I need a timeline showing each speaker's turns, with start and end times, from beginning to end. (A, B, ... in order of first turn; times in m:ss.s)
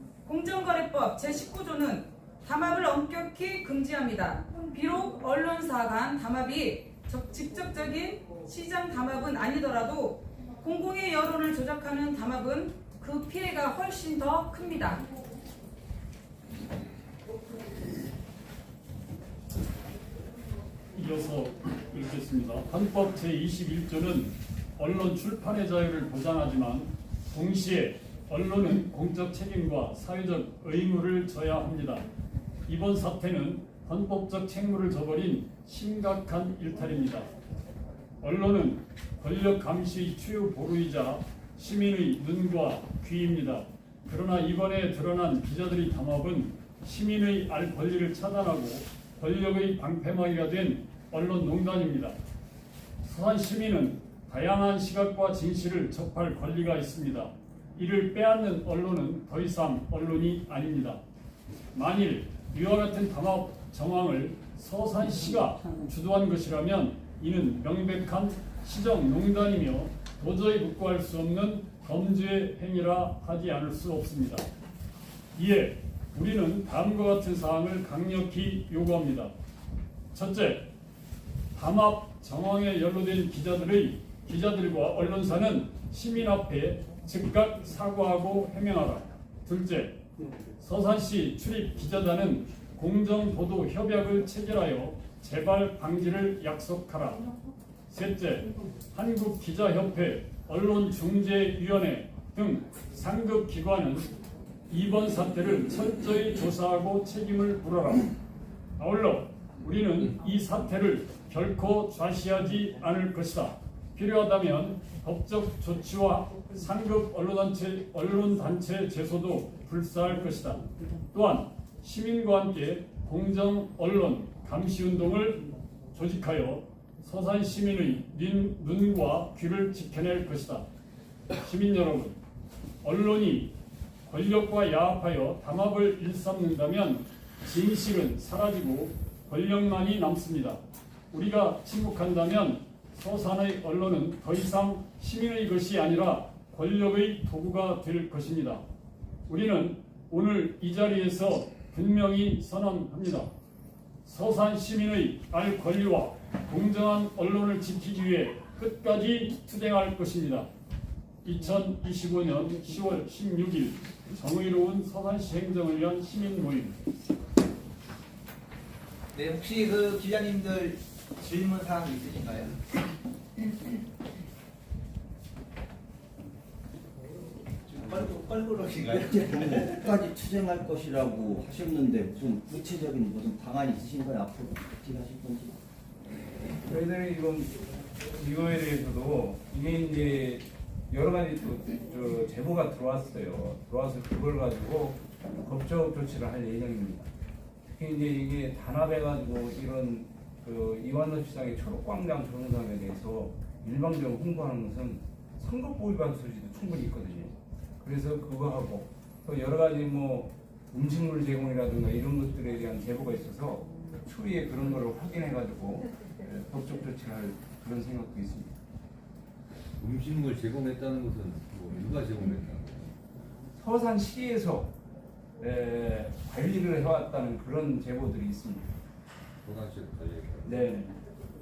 0:00.3-0:15.1 A
0:20.9-0:32.1 B
0:32.7-0:37.3 B
0:38.2-0:52.2 B
0:53.0-1:01.0 B
1:01.7-1:14.5 B
1:15.4-1:19.3 B
1:20.1-1:20.7 B
1:21.5-1:30.0 B
1:30.6-1:37.3 B
1:37.9-1:44.1 B
1:44.7-1:48.2 B
1:48.8-2:10.7 B
2:11.4-2:12.2 B
2:12.8-2:28.6 B
2:29.3-2:33.3 B
2:34.0-2:40.5 B
2:41.2-2:46.8 B
2:49.1-2:52.6 C
2:57.7-3:00.0 C
2:58.9-3:05.6 D
3:06.7-3:07.6 E
3:08.1-3:17.1 E
3:17.7-3:38.6 E
3:39.8-3:43.0 F
3:43.6-3:44.7 E
3:45.4-3:48.8 E
3:49.4-3:50.8 F
3:50.4-3:51.0 E